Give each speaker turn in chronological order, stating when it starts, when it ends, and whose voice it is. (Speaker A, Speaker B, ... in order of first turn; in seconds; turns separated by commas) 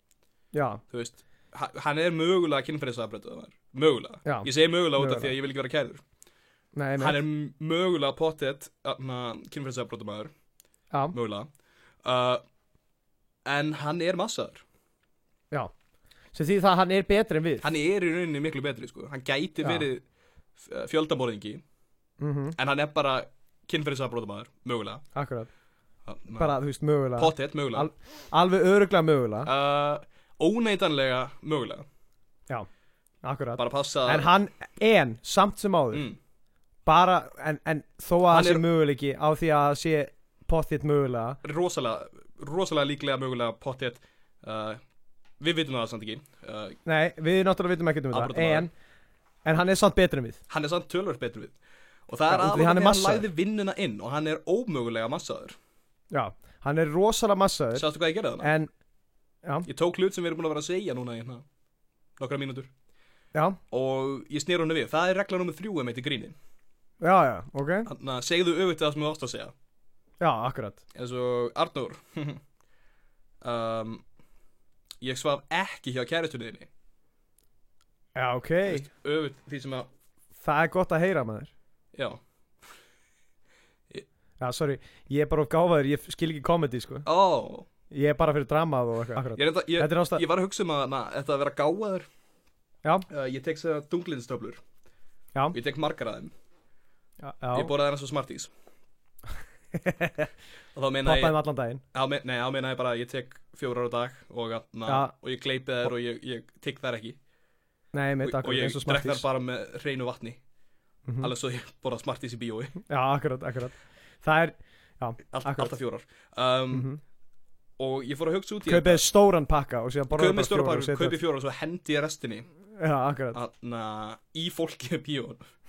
Speaker A: 0.5-0.8, Speaker B: 0.9-6.0, Speaker A: 4.2-5.3, Speaker A: 6.8-7.2, Speaker B: 7.0-10.3, Speaker B: 11.1-11.5, Speaker B: 12.0-12.4, Speaker B: 13.4-14.6, Speaker A: 16.3-17.7, Speaker B: 17.6-20.0, Speaker B: 20.6-21.6, Speaker A: 22.2-22.6, Speaker B: 22.6-25.0, Speaker A: 25.1-25.5, Speaker B: 26.1-26.6, Speaker A: 26.4-29.5, Speaker B: 27.2-27.9, Speaker B: 29.4-31.8, Speaker A: 33.2-36.1, Speaker B: 33.6-34.3, Speaker B: 35.9-36.2, Speaker A: 36.9-41.4, Speaker B: 38.3-38.6, Speaker B: 41.4-44.8, Speaker B: 45.4-46.8, Speaker A: 46.8-48.7, Speaker B: 48.1-48.7, Speaker A: 49.4-50.4, Speaker B: 50.5-51.5, Speaker B: 52.1-55.5, Speaker A: 52.3-53.3, Speaker A: 56.1-57.9, Speaker B: 57.7-58.5, Speaker A: 58.4-58.7, Speaker B: 59.6-61.4, Speaker B: 62.2-62.7, Speaker A: 63.3-63.6, Speaker B: 63.7-66.3, Speaker A: 67.0-67.9, Speaker B: 67.8-69.5, Speaker A: 70.2-70.8, Speaker B: 70.9-72.4, Speaker B: 73.4-74.0, Speaker B: 75.0-76.7, Speaker A: 78.1-78.9, Speaker B: 78.7-79.9, Speaker A: 80.4-81.5, Speaker B: 81.9-82.2, Speaker A: 84.4-87.0, Speaker B: 87.0-87.7, Speaker A: 87.9-90.2, Speaker B: 89.3-92.1, Speaker B: 93.1-94.6, Speaker B: 95.5-96.3, Speaker A: 97.2-97.7, Speaker B: 97.5-98.5, Speaker A: 99.8-100.3, Speaker B: 100.7-101.3, Speaker A: 101.0-101.8, Speaker B: 101.9-107.2, Speaker A: 104.9-105.1, Speaker A: 107.9-109.2, Speaker B: 108.2-110.4, Speaker A: 111.1-111.3, Speaker B: 111.2-112.8, Speaker A: 112.9-115.7, Speaker B: 115.3-116.9, Speaker A: 116.7-117.0, Speaker B: 117.8-119.0, Speaker A: 118.7-121.2, Speaker B: 120.1-122.5, Speaker A: 122.8-123.4, Speaker B: 123.3-125.4